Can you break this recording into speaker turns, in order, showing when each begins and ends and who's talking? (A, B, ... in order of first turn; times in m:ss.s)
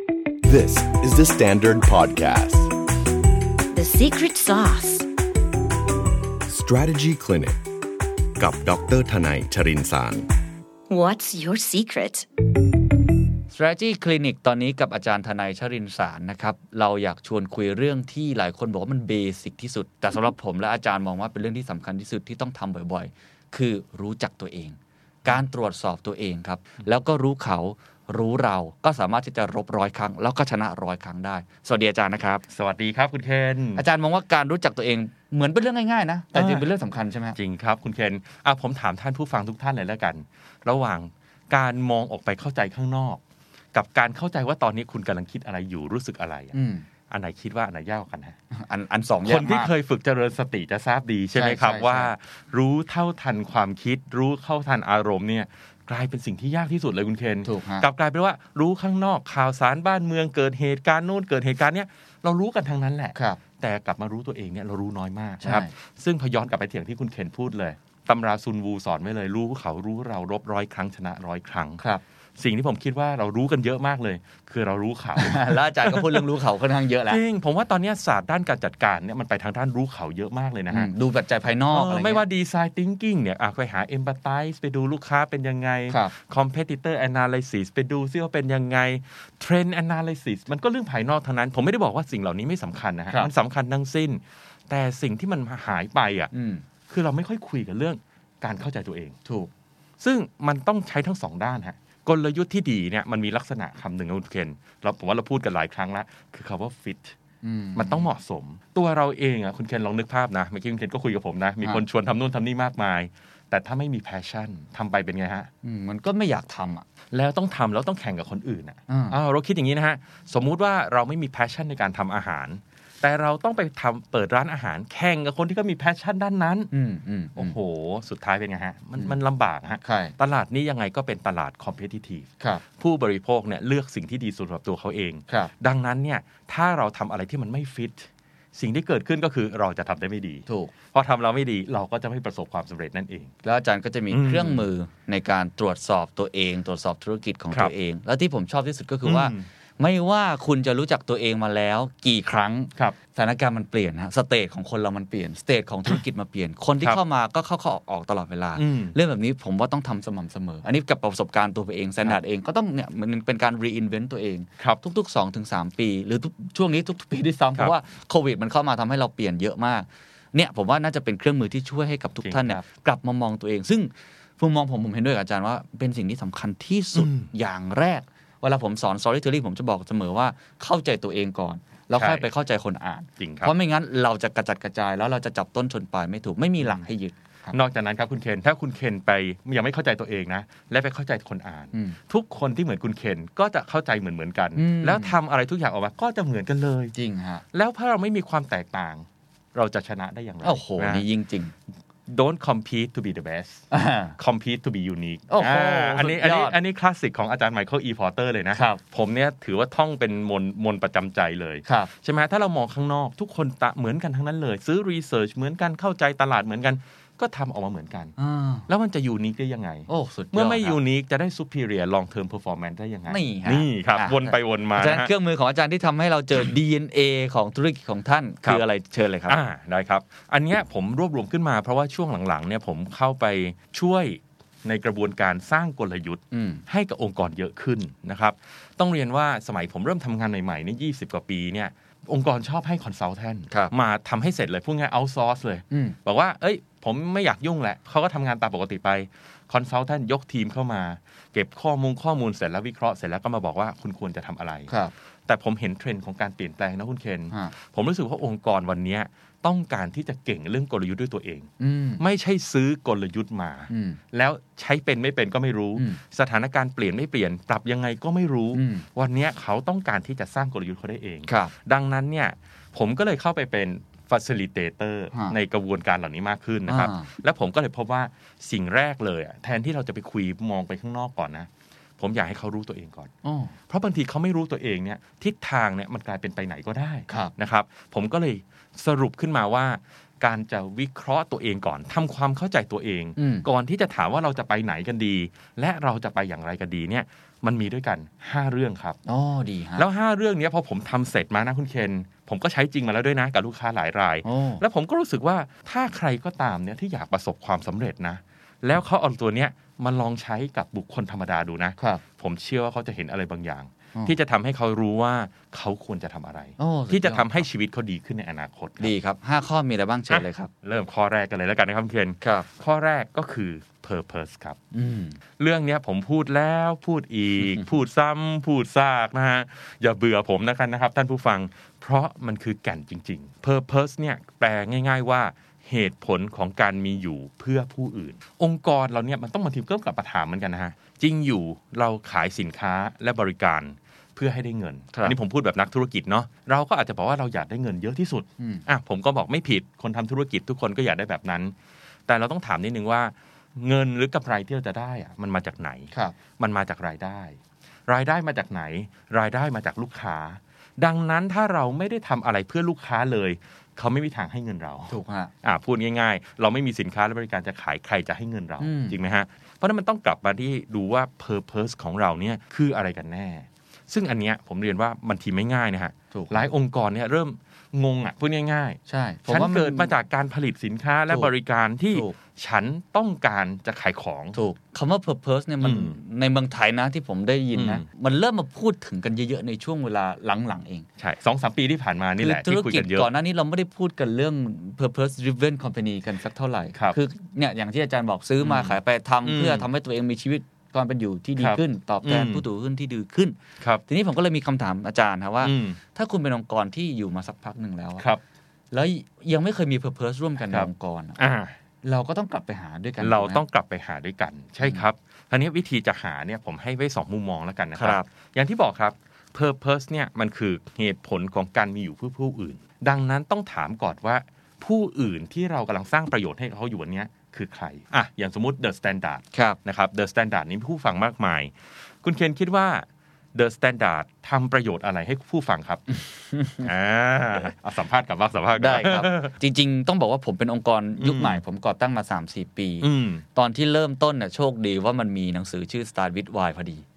0:00.4-0:02.7 A
0:03.7-0:05.1 B
0:06.4-0:07.6 A
0:08.4-0:10.3 A
0:10.9-0:12.3 B
0:13.5-0:32.4 C
0:32.5-0:33.8 D
0:33.8-0:37.4 C
0:36.3-0:36.7 D
0:37.4-0:43.2 D
0:43.7-0:46.6 D
0:46.5-0:46.8 C
0:47.1-0:48.4 D
0:48.5-0:49.7 C
0:49.2-1:11.8 D
0:51.3-0:52.1 C
0:57.4-0:57.8 C
1:03.1-1:03.4 C
1:05.4-1:05.7 C
1:12.4-1:16.2 D
1:15.2-1:17.2 C
1:17.1-1:20.9 D
1:20.7-1:22.2 C
1:21.7-1:36.3 D
1:36.3-1:36.6 C
1:36.9-1:39.2 D
1:39.2-1:39.5 C
1:40.0-1:47.1 D
1:47.4-1:48.1 C
1:47.8-1:55.5 D
1:55.6-1:56.8 C
1:57.1-2:06.7 D
1:58.9-1:59.2 C
2:06.7-2:07.6 C
2:07.4-2:23.3 D
2:09.8-2:10.1 C
2:20.5-2:20.7 C
2:23.4-3:07.6 C
2:24.1-2:24.7 D
2:29.0-2:29.5 D
2:38.6-2:39.0 D
2:52.2-2:52.6 D
2:56.9-2:57.3 D
3:01.9-3:02.3 D
3:03.2-3:03.5 D
3:07.5-3:16.9 D
3:14.6-3:15.2 C
3:16.9-3:17.4 C
3:17.5-3:21.0 D
3:20.4-3:21.5 C
3:22.1-3:38.2 D
3:23.7-3:24.2 C
3:25.3-3:26.6 C
3:28.5-3:28.8 C
3:31.6-3:31.9 C
3:38.2-3:38.7 C
3:38.7-3:45.1 D
3:39.9-3:40.8 C
3:43.1-3:49.4 C
3:49.3-4:14.7 D
3:56.3-3:56.6 C
4:05.7-4:06.0 C
4:14.7-4:14.9 C
4:15.3-4:43.1 D
4:21.6-4:22.0 C
4:23.7-4:24.0 C
4:28.5-4:28.8 C
4:31.3-4:31.5 C
4:36.7-4:37.1 C
4:43.2-4:43.5 C
4:43.7-4:59.0 D
4:53.2-4:53.4 C
4:59.0-4:59.8 C
4:59.8-5:18.9 D
5:04.2-5:04.6 C
5:16.6-5:17.5 C
5:18.8-5:20.5 C
5:20.1-5:24.6 D
5:22.2-5:22.5 C
5:24.7-5:25.2 C
5:25.4-5:51.5 D
5:27.4-5:27.7 C
5:48.4-5:48.6 C
5:52.1-6:24.4 D
6:04.9-6:05.3 C
6:08.6-6:09.0 C
6:16.1-6:16.5 C
6:18.9-6:19.9 C
6:24.3-6:30.8 C
6:25.6-6:26.0 D
6:27.5-6:27.8 D
6:31.0-6:33.1 D
6:32.2-6:48.0 C
6:38.4-6:39.7 D
6:41.4-6:42.4 D
6:45.4-6:45.8 D
6:48.7-6:51.2 C
6:50.5-6:51.5 D
6:51.8-6:53.4 C
6:53.0-7:15.8 D
6:57.8-6:58.0 C
7:09.3-7:09.6 C
7:16.0-7:16.7 C
7:16.6-7:19.3 D
7:18.6-7:26.8 C
7:21.0-7:21.4 D
7:22.8-7:23.2 D